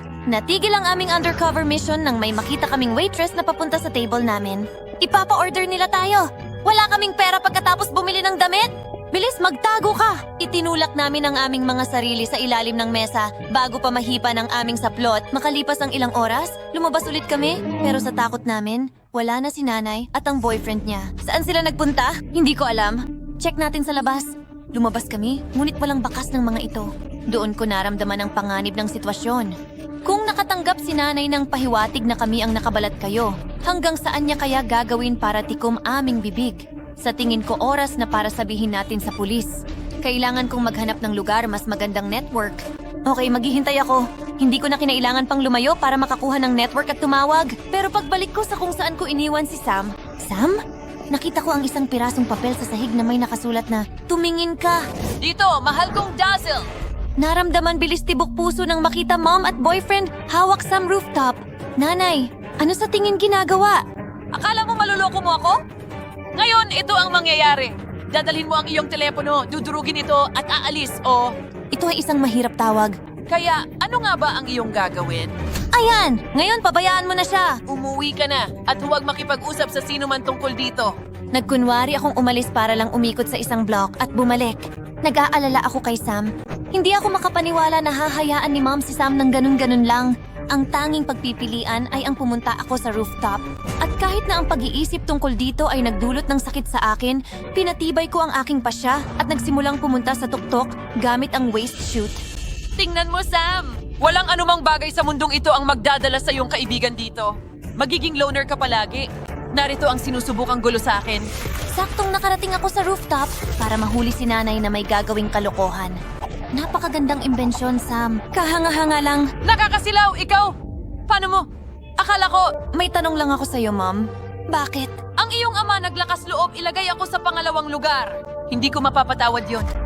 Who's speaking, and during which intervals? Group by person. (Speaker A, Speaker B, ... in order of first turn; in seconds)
Speaker A: 0.3-29.5, 30.1-39.5, 40.0-50.6, 51.1-54.8, 57.2-63.8, 71.7-73.0, 75.7-77.6, 81.3-102.2, 111.7-116.0, 116.5-119.3, 122.7-125.0
Speaker B: 55.2-56.7, 64.3-65.6, 66.4-71.3, 73.3-75.3, 77.7-80.9, 102.8-111.3, 119.4-120.5, 121.1-121.5, 122.0-122.5, 125.2-129.7